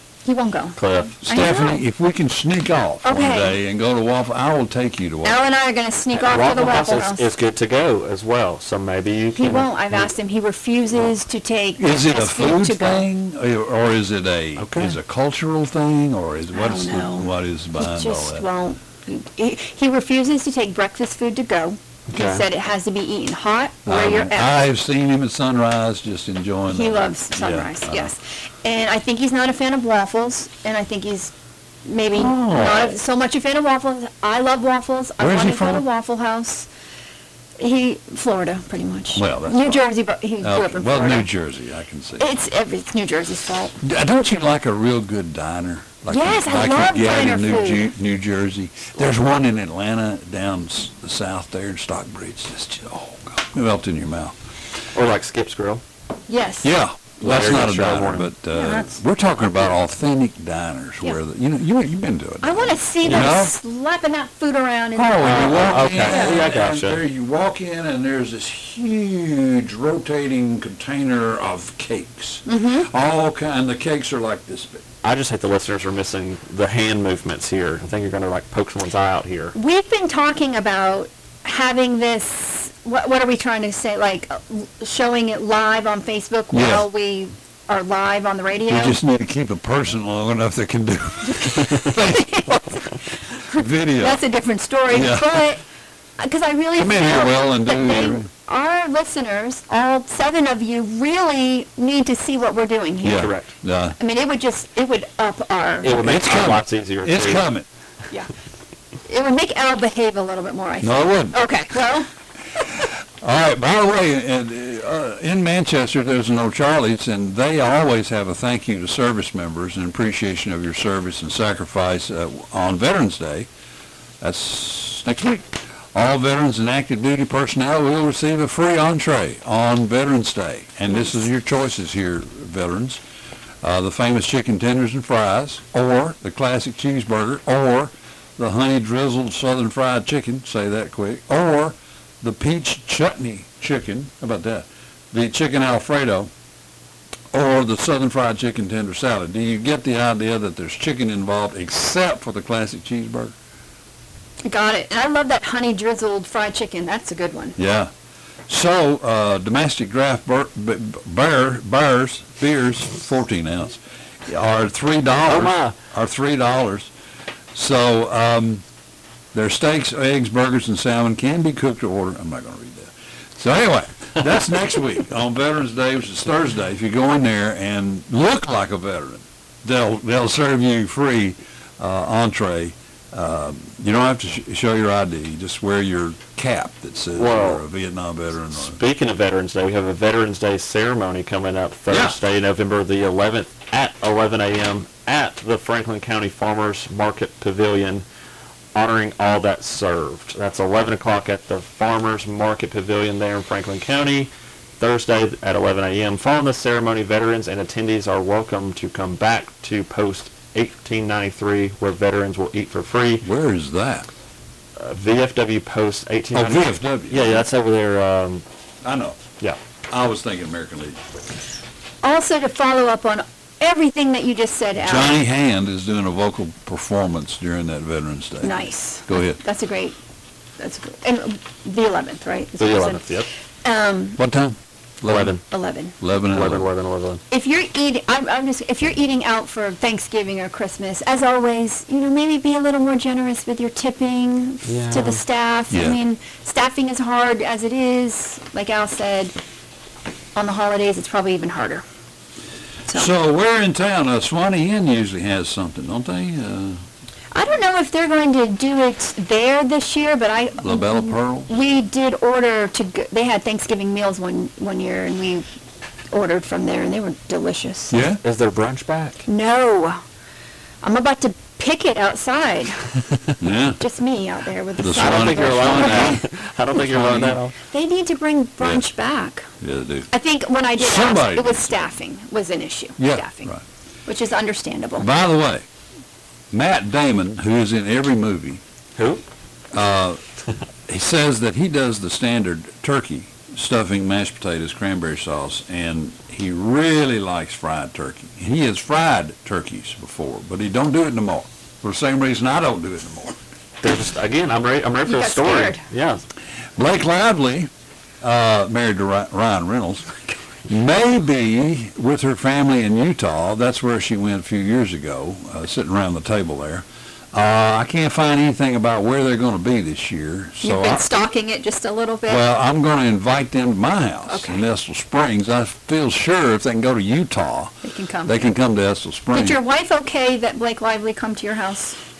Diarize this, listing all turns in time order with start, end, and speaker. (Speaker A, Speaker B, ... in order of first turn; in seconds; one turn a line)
Speaker A: 0.2-1.8
Speaker B: 0.8-1.1
Speaker C: 1.2-5.4
Speaker A: 3.0-3.6
Speaker A: 5.2-7.2
Speaker B: 6.1-10.0
Speaker A: 9.4-13.1
Speaker C: 11.8-18.4
Speaker B: 14.6-14.9
Speaker A: 16.5-24.6
Speaker B: 22.1-22.4
Speaker C: 23.9-28.1
Speaker A: 26.7-31.3
Speaker A: 31.9-36.7
Speaker C: 32.2-33.0
Speaker C: 35.2-35.9
Speaker A: 37.6-41.3
Speaker C: 39.1-42.3
Speaker A: 42.2-43.8
Speaker C: 43.8-54.3
Speaker A: 46.1-47.9
Speaker B: 54.9-55.8
Speaker A: 56.3-56.7
Speaker C: 56.6-63.5
Speaker B: 57.2-58.3
Speaker A: 58.5-58.9
Speaker A: 62.4-66.5
Speaker B: 63.0-63.3
Speaker C: 65.0-74.8
Speaker B: 65.2-67.0
Speaker A: 72.5-72.9
Speaker B: 75.0-79.5
Speaker A: 79.5-89.0
Speaker C: 86.5-86.9
Speaker C: 88.7-92.9
Speaker A: 92.1-92.8
Speaker C: 93.5-94.2
Speaker A: 93.6-95.6
Speaker C: 94.9-95.4
Speaker A: 96.2-103.3
Speaker C: 96.8-98.3
Speaker C: 103.0-104.0
Speaker B: 103.1-103.5
Speaker A: 104.0-105.9
Speaker B: 105.8-107.5
Speaker C: 106.0-107.6
Speaker A: 109.1-112.1
Speaker C: 110.8-111.4
Speaker C: 113.2-123.5
Speaker C: 124.2-133.0
Speaker C: 133.6-146.3
Speaker C: 147.3-153.3
Speaker A: 154.4-157.6
Speaker C: 157.6-157.9
Speaker C: 158.5-166.9
Speaker B: 165.3-165.7
Speaker C: 167.6-168.6
Speaker C: 169.3-188.8
Speaker B: 187.2-187.6
Speaker B: 188.5-198.1
Speaker C: 191.9-192.2
Speaker B: 198.7-213.2
Speaker C: 213.2-214.1
Speaker B: 214.8-218.4
Speaker C: 216.3-217.4
Speaker C: 218.8-219.2
Speaker C: 219.9-221.0
Speaker A: 222.0-225.2
Speaker C: 224.8-229.4
Speaker A: 228.4-230.0
Speaker A: 230.6-233.0
Speaker B: 232.6-233.3
Speaker A: 233.6-234.2
Speaker C: 234.2-235.4
Speaker B: 235.1-235.4
Speaker A: 235.5-235.9
Speaker C: 236.0-236.7
Speaker B: 236.3-237.2
Speaker A: 237.3-249.3
Speaker B: 244.6-245.2
Speaker C: 245.7-246.0
Speaker A: 250.3-251.8
Speaker C: 252.9-256.8
Speaker A: 257.3-265.4
Speaker C: 260.6-261.5
Speaker A: 266.1-267.9
Speaker C: 267.9-268.2
Speaker B: 268.2-269.2
Speaker A: 269.2-270.0
Speaker A: 270.8-272.8
Speaker C: 273.4-273.8
Speaker A: 273.8-276.2
Speaker C: 274.8-276.2
Speaker B: 275.0-277.5
Speaker C: 276.9-277.4
Speaker A: 277.7-279.5
Speaker C: 279.6-280.1
Speaker A: 280.1-283.5
Speaker C: 280.8-281.7
Speaker C: 283.0-283.6
Speaker A: 284.1-285.1
Speaker C: 285.0-285.6
Speaker C: 286.5-288.6
Speaker B: 288.9-289.2
Speaker C: 289.7-290.2
Speaker C: 290.9-303.3
Speaker B: 303.8-306.2
Speaker A: 305.1-305.8
Speaker C: 306.8-307.7
Speaker C: 308.2-310.1
Speaker C: 310.7-321.1
Speaker A: 320.6-322.5
Speaker C: 322.3-327.7
Speaker A: 324.3-324.6
Speaker A: 327.8-328.4
Speaker C: 328.2-329.6
Speaker A: 329.3-332.0